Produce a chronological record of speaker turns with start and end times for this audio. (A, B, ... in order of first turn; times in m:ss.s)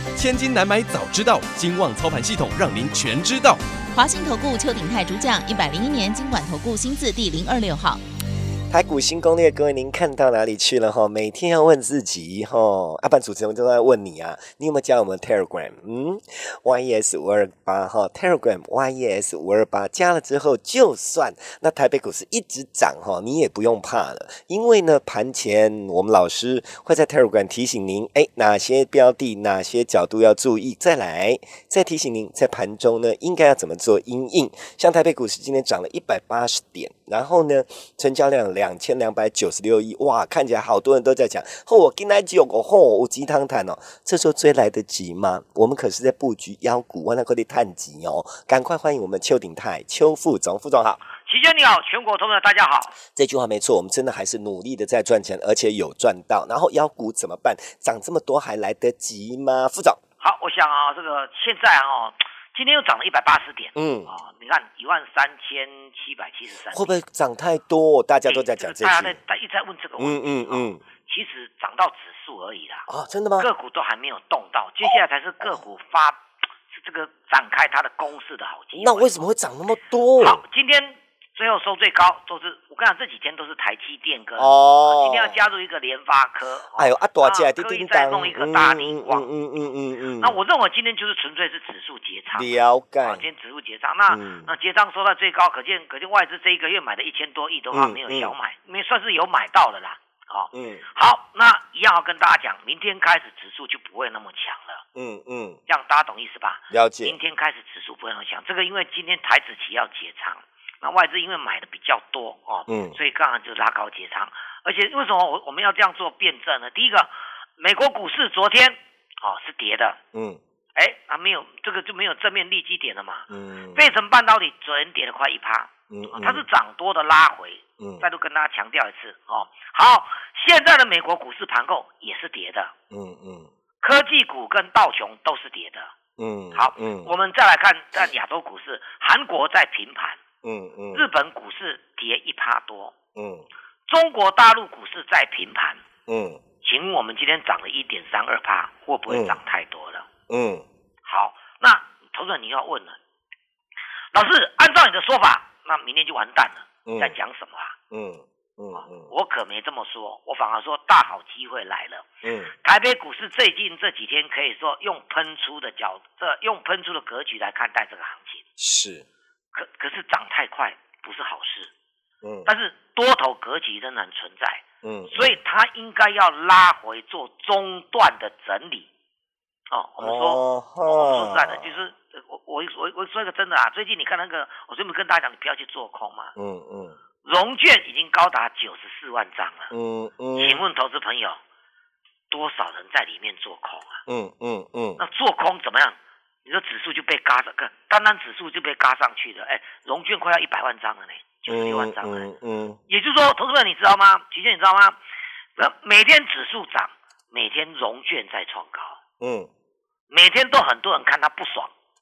0:00.1-0:03.6 A
0:03.9-0:08.0 B
0:08.7-0:51.0 C
0:51.2-0:53.0 D
0:53.1-1:00.0 C
1:00.2-1:07.0 D
1:03.7-1:04.1 C
1:06.7-1:09.2 C
1:08.2-1:12.9 D
1:10.0-1:10.8 C
1:12.9-1:13.5 C
1:13.4-1:19.3 D
1:18.7-1:20.4 C
1:20.2-1:29.3 D
1:24.4-1:25.4 C
1:26.7-1:30.4 C
1:30.2-1:32.5 D
1:32.3-1:33.2 C
1:33.0-1:44.8 D
1:34.1-1:34.5 C
1:37.7-1:38.3 C
1:40.5-1:40.8 C
1:44.9-1:45.6 C
1:45.7-2:00.0 D
1:46.7-1:47.2 C
1:52.7-1:53.0 C
2:00.1-2:00.4 C
2:00.7-2:12.7 D
2:03.3-2:03.9 C
2:05.9-2:06.5 C
2:07.8-2:08.0 C
2:12.9-2:13.5 C
2:13.8-2:15.9 D
2:16.2-2:17.1 C
2:16.5-2:20.2 D
2:20.4-2:21.1 C
2:20.9-2:22.9 D
2:23.1-2:23.4 C
2:23.9-2:25.8 D
2:26.1-2:26.4 C
2:26.6-2:30.1 D
2:29.1-2:29.4 C
2:30.3-2:30.6 C
2:31.0-2:33.0 D
2:34.1-2:37.8 D
2:36.8-2:37.2 C
2:37.9-2:39.1 C
2:38.7-2:42.1 D
2:42.2-2:42.5 C
2:42.6-2:48.4 D
2:48.6-2:49.0 C
2:49.5-2:51.7 D
2:52.2-2:52.5 C
2:52.4-2:58.9 D
2:54.8-2:55.4 C
2:59.7-3:06.3 D
3:00.0-3:01.8 C
3:06.4-3:07.0 C
3:07.2-3:09.7 D
3:09.7-3:10.6 C
3:10.3-3:11.4 D
3:12.3-3:14.0 D
3:14.1-3:15.0 C
3:15.0-3:22.3 D
3:21.5-3:22.8 C
3:22.9-3:25.0 D
3:25.6-3:29.0 D
3:29.2-3:29.5 C
3:30.1-3:31.7 D